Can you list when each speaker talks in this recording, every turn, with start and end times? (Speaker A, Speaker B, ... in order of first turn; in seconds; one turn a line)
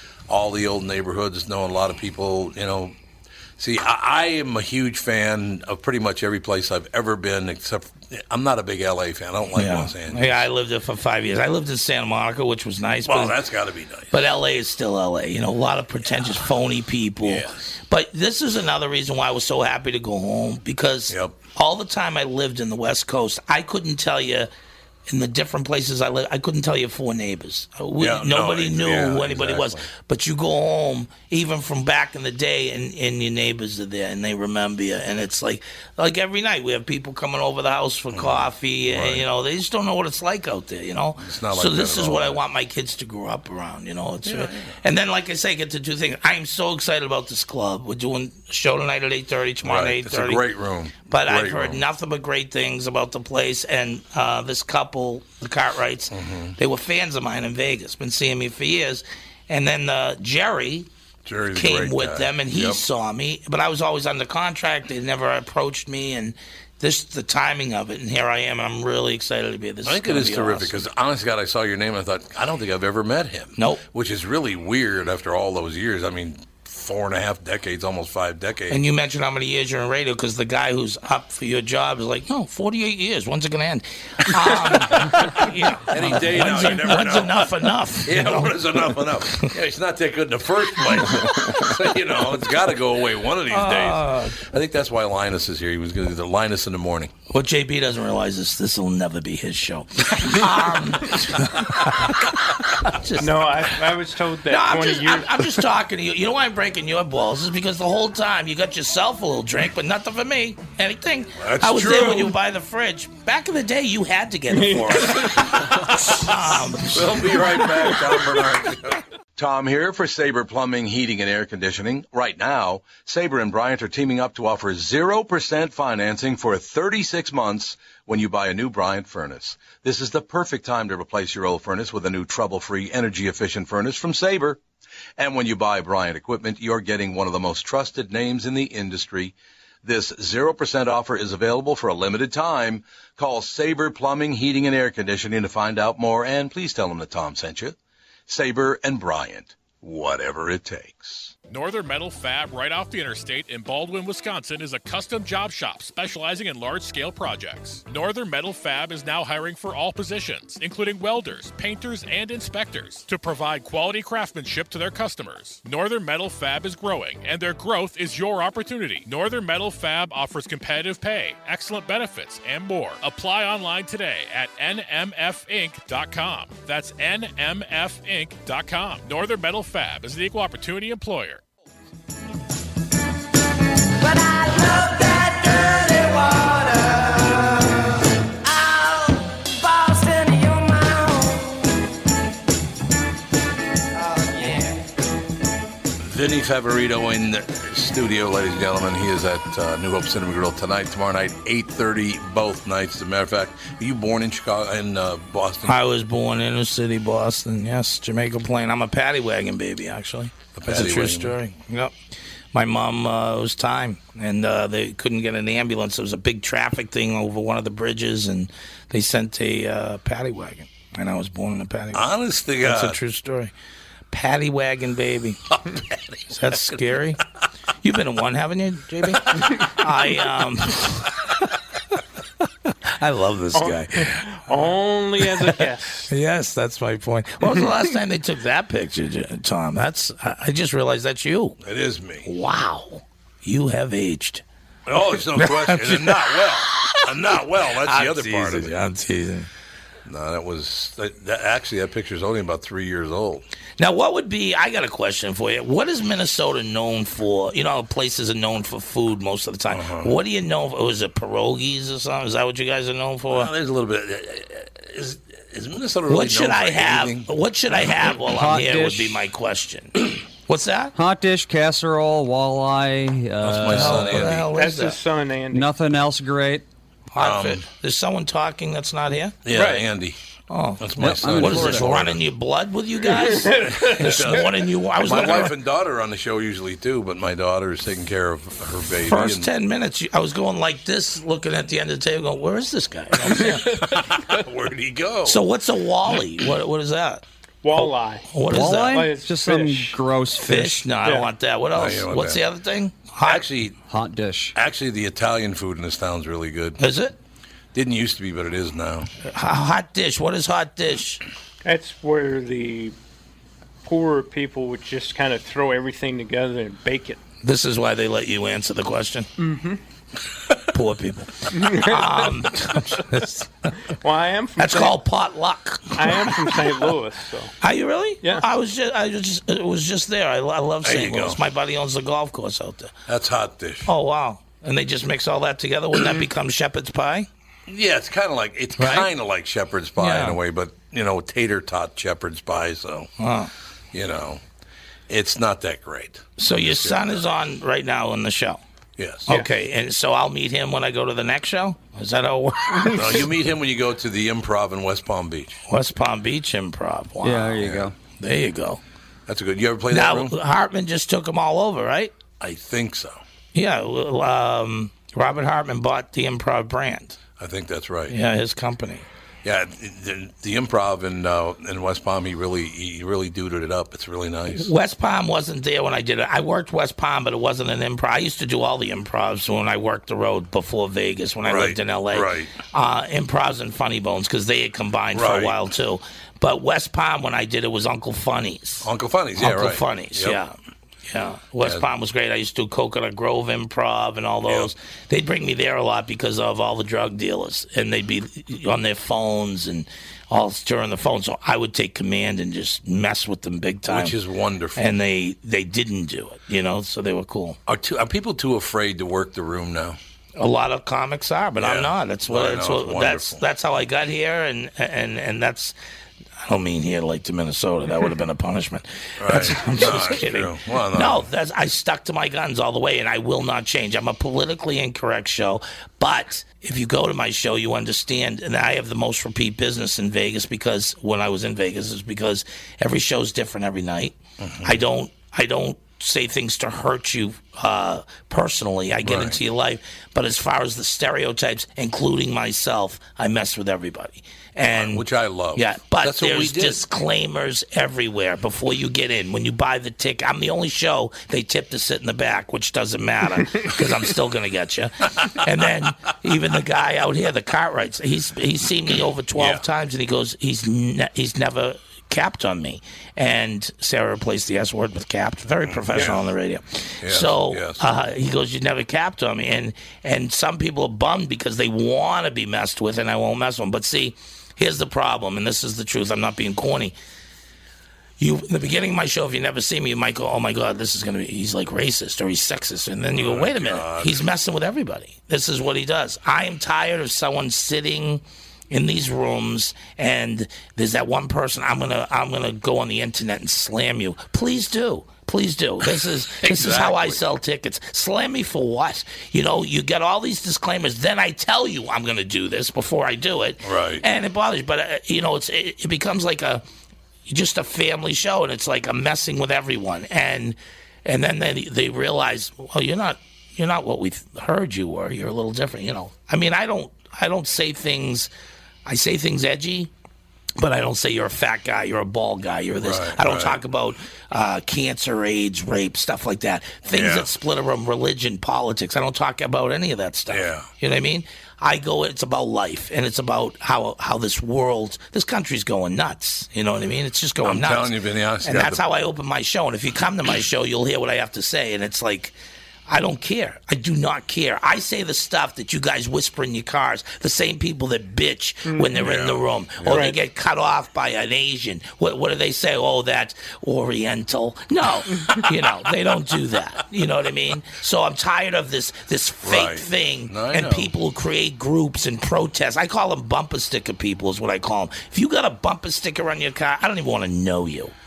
Speaker A: 0.3-2.9
Speaker A: 3.6-10.5
Speaker B: 9.5-13.4
Speaker A: 13.0-14.3
Speaker B: 14.1-24.5
Speaker A: 16.0-16.5
Speaker A: 17.2-17.8
Speaker A: 21.1-21.4
Speaker B: 25.1-50.4
Speaker A: 28.0-29.9
Speaker A: 38.1-39.3
Speaker A: 41.2-42.4
Speaker A: 44.2-44.8
Speaker A: 49.6-51.9
Speaker B: 51.1-60.9
Speaker A: 56.1-56.6
Speaker A: 61.2-62.8
Speaker B: 61.5-70.9
Speaker A: 69.8-78.8
Speaker B: 73.6-73.8
Speaker B: 78.7-89.5
Speaker A: 84.6-85.3
Speaker A: 85.8-97.1
Speaker B: 90.8-91.8
Speaker B: 93.5-94.4
Speaker B: 97.3-102.2
Speaker B: 102.9-103.4
Speaker C: 103.2-105.4
Speaker B: 104.5-115.5
Speaker A: 111.4-112.4
Speaker C: 114.5-115.5
Speaker A: 115.9-134.6
Speaker B: 116.2-117.2
Speaker A: 135.2-147.8
Speaker A: 148.3-151.3
Speaker D: 151.5-181.4
Speaker E: 184.0-187.7
Speaker E: 188.4-191.6
Speaker E: 194.1-194.8
Speaker A: 196.0-205.8
Speaker B: 205.6-211.9
Speaker A: 210.5-211.4
Speaker B: 212.5-222.1
Speaker A: 221.9-223.0
Speaker B: 222.6-223.5
Speaker B: 224.1-225.4
Speaker A: 225.5-227.0
Speaker B: 226.3-227.2
Speaker B: 227.8-231.1
Speaker B: 233.0-234.2
Speaker C: 233.5-236.1
Speaker B: 235.3-241.5
Speaker A: 241.6-242.3
Speaker B: 242.2-244.4
Speaker A: 244.8-248.8
Speaker B: 245.4-249.5
Speaker A: 250.1-253.4
Speaker B: 253.8-263.5
Speaker A: 259.7-260.2
Speaker A: 263.3-268.1
Speaker B: 266.1-270.9
Speaker F: 268.2-269.2
Speaker F: 270.9-274.3
Speaker A: 273.4-274.5
Speaker B: 273.7-275.0
Speaker C: 274.5-275.7
Speaker F: 275.5-276.6
Speaker B: 277.1-279.4
Speaker A: 277.2-277.7
Speaker A: 279.4-280.2
Speaker C: 279.5-279.9
Speaker B: 280.5-285.5
Speaker A: 280.8-282.2
Speaker F: 281.0-282.0
Speaker C: 283.1-284.4
Speaker A: 283.6-289.5
Speaker B: 289.0-293.8
Speaker A: 293.3-295.4
Speaker B: 295.2-297.2
Speaker C: 297.6-298.3
Speaker B: 298.3-299.0
Speaker F: 298.5-300.9
Speaker C: 298.8-300.0
Speaker B: 300.3-303.4
Speaker C: 301.0-301.3
Speaker A: 301.7-302.4
Speaker A: 303.2-303.7
Speaker F: 303.9-304.5
Speaker A: 304.5-306.8
Speaker B: 306.8-307.1
Speaker A: 307.7-309.1
Speaker B: 309.3-311.2
Speaker C: 311.6-312.9
Speaker C: 313.8-317.2
Speaker B: 317.4-319.3
Speaker C: 319.4-319.8
Speaker B: 320.7-323.4
Speaker C: 321.5-323.0
Speaker C: 324.0-325.0
Speaker B: 324.6-326.5
Speaker C: 325.9-327.5
Speaker B: 327.6-332.9
Speaker A: 330.8-331.4
Speaker A: 333.1-333.9
Speaker B: 333.9-337.3
Speaker A: 337.7-343.1
Speaker B: 338.8-339.1
Speaker B: 340.0-340.4
Speaker B: 343.2-343.5
Speaker A: 343.9-344.4
Speaker A: 345.1-347.3
Speaker B: 346.4-348.6
Speaker A: 349.0-349.3
Speaker B: 349.3-353.2
Speaker A: 352.9-355.6
Speaker B: 355.7-357.6
Speaker F: 357.2-357.9
Speaker A: 357.6-357.9
Speaker B: 358.2-358.8
Speaker A: 359.3-360.4
Speaker B: 359.9-362.1
Speaker A: 362.4-363.2
Speaker B: 363.5-367.2
Speaker A: 367.4-368.2
Speaker B: 368.1-369.1
Speaker A: 369.4-374.7
Speaker B: 374.5-390.5
Speaker A: 381.4-382.5
Speaker A: 385.1-385.7
Speaker A: 388.8-390.4
Speaker B: 391.1-404.1
Speaker A: 391.6-391.9
Speaker A: 394.4-394.7
Speaker A: 403.9-404.9
Speaker B: 404.8-407.6
Speaker A: 407.6-410.0
Speaker B: 410.4-415.7
Speaker A: 411.6-413.5
Speaker B: 416.4-445.0
Speaker A: 419.2-421.3
Speaker A: 434.4-434.8
Speaker A: 439.0-439.4
Speaker A: 444.7-446.8
Speaker B: 445.6-476.9
Speaker A: 459.3-459.6
Speaker A: 465.6-466.3
Speaker A: 467.0-467.8
Speaker B: 478.2-506.6
Speaker A: 483.1-484.3
Speaker A: 495.8-497.3
Speaker A: 503.6-504.1
Speaker B: 507.2-518.3
Speaker B: 518.9-519.9
Speaker B: 520.6-537.9
Speaker A: 522.8-523.6
Speaker A: 526.9-527.3
Speaker A: 530.3-530.7
Speaker A: 537.4-538.8
Speaker B: 538.4-542.4
Speaker B: 542.9-567.9
Speaker C: 548.6-549.0
Speaker A: 548.9-550.1
Speaker C: 549.9-550.2
Speaker A: 559.4-560.9